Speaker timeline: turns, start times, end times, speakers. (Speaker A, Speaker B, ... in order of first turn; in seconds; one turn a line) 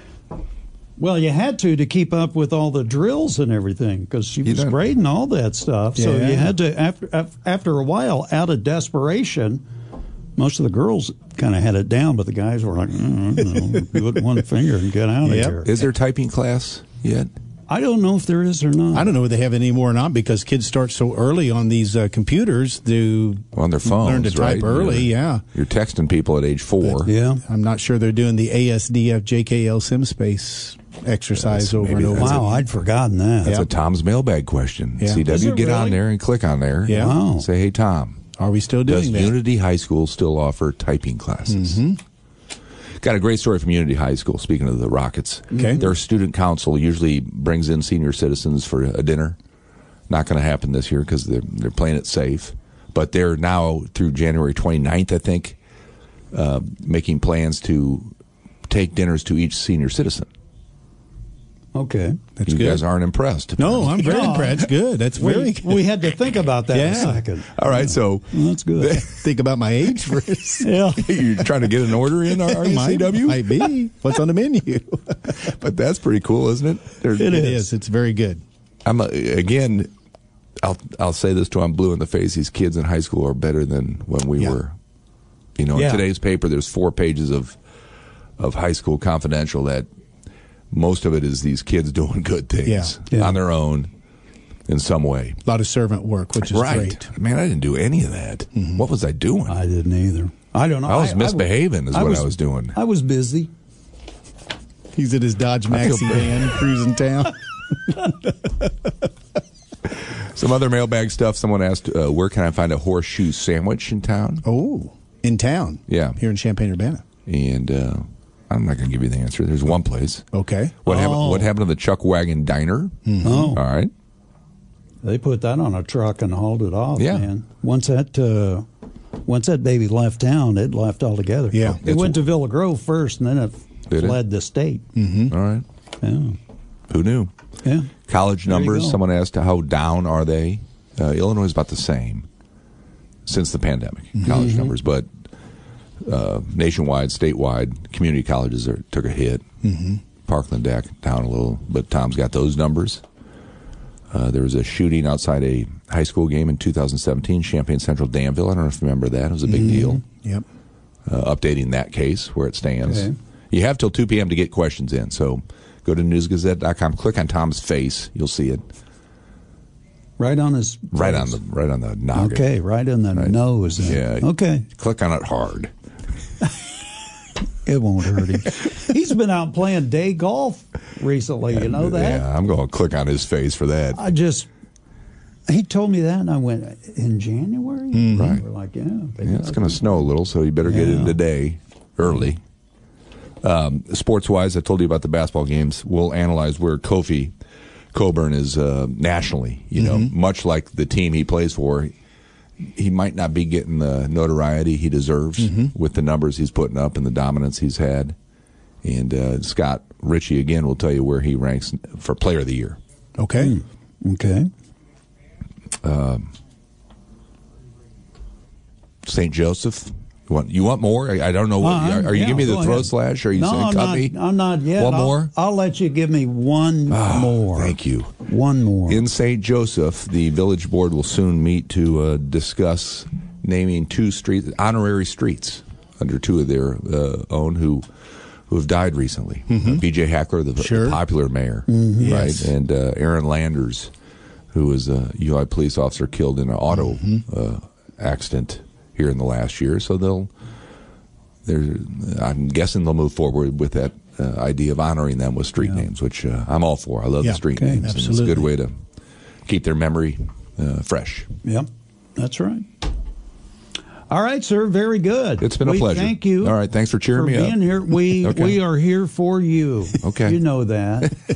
Speaker A: 1.0-9.6
Speaker B: 4.4-4.8
Speaker C: 6.0-6.5
Speaker A: 10.3-15.7
Speaker C: 15.2-15.6
Speaker B: 15.6-17.3
Speaker A: 17.7-19.1
Speaker C: 18.9-25.4
Speaker B: 23.5-27.1
Speaker C: 26.8-32.6
Speaker A: 27.0-27.4
Speaker B: 31.4-32.5
Speaker A: 32.1-33.6
Speaker B: 33.4-38.2
Speaker C: 35.0-35.2
Speaker A: 35.2-36.0
Speaker C: 36.8-37.2
Speaker A: 36.9-37.5
Speaker C: 38.4-39.4
Speaker B: 38.8-41.8
Speaker C: 41.5-42.0
Speaker B: 43.0-49.4
Speaker A: 45.5-45.9
Speaker C: 45.5-45.8
Speaker B: 50.1-55.6
Speaker B: 56.3-58.1
Speaker B: 58.7-60.3
Speaker A: 61.7-62.2
Speaker C: 62.4-62.8
Speaker B: 62.5-64.5
Speaker C: 63.6-65.9
Speaker A: 63.9-69.0
Speaker C: 66.7-67.2
Speaker B: 67.5-69.2
Speaker C: 69.0-70.7
Speaker A: 70.6-71.0
Speaker B: 70.9-73.7
Speaker C: 72.3-75.3
Speaker B: 75.3-77.5
Speaker A: 77.2-77.6
Speaker C: 77.2-78.4
Speaker B: 78.8-79.9
Speaker B: 80.6-84.7
Speaker B: 85.6-87.5
Speaker A: 85.7-86.0
Speaker B: 88.4-89.9
Speaker B: 90.7-93.9
Speaker C: 92.6-92.9
Speaker B: 94.7-95.4
Speaker C: 95.4-97.1
Speaker B: 96.4-99.6
Speaker A: 99.5-103.5
Speaker B: 100.9-102.8
Speaker C: 104.9-107.4
Speaker B: 105.7-106.5
Speaker B: 110.3-114.4
Speaker C: 114.4-117.0
Speaker B: 115.9-116.2
Speaker B: 117.2-120.2
Speaker C: 120.3-120.8
Speaker B: 120.8-123.9
Speaker A: 120.8-121.5
Speaker C: 123.0-123.5
Speaker A: 123.2-123.6
Speaker A: 125.0-128.7
Speaker B: 127.0-127.3
Speaker A: 129.2-134.8
Speaker C: 131.5-131.8
Speaker B: 131.8-132.3
Speaker B: 133.9-134.2
Speaker C: 134.9-135.3
Speaker B: 135.3-135.6
Speaker A: 136.0-136.4
Speaker B: 136.9-137.3
Speaker A: 137.6-139.0
Speaker B: 138.1-142.2
Speaker B: 143.2-145.1
Speaker A: 144.2-144.7
Speaker B: 146.0-149.4
Speaker C: 149.6-150.0
Speaker B: 150.2-153.0
Speaker B: 154.1-160.0
Speaker A: 159.5-160.0
Speaker B: 161.1-168.6
Speaker A: 162.8-163.1
Speaker A: 170.2-171.4
Speaker B: 170.9-172.5
Speaker A: 172.1-174.7
Speaker B: 173.1-175.7
Speaker A: 177.6-182.2
Speaker B: 181.5-184.0
Speaker A: 183.9-184.5
Speaker A: 185.5-191.2
Speaker C: 187.9-188.3
Speaker B: 188.1-188.4
Speaker B: 189.2-192.4
Speaker B: 193.4-197.3
Speaker B: 197.9-201.9
Speaker C: 199.8-200.1
Speaker B: 202.7-208.1
Speaker C: 205.4-205.7
Speaker B: 208.8-212.8
Speaker C: 213.2-213.6
Speaker A: 213.4-214.5
Speaker B: 215.8-216.3
Speaker B: 219.0-224.1
Speaker A: 221.6-229.0
Speaker B: 224.7-225.3
Speaker B: 226.9-228.1
Speaker B: 228.9-237.8
Speaker B: 238.5-243.9
Speaker C: 239.5-239.8
Speaker C: 240.6-241.0
Speaker A: 241.7-242.1
Speaker C: 242.0-242.5
Speaker B: 244.5-250.3
Speaker B: 251.4-258.7
Speaker C: 257.2-258.5
Speaker A: 257.5-257.9
Speaker B: 259.4-261.3
Speaker A: 261.4-262.6
Speaker A: 264.1-266.6
Speaker B: 265.4-267.6
Speaker A: 267.1-271.1
Speaker B: 268.1-268.6
Speaker B: 270.0-270.4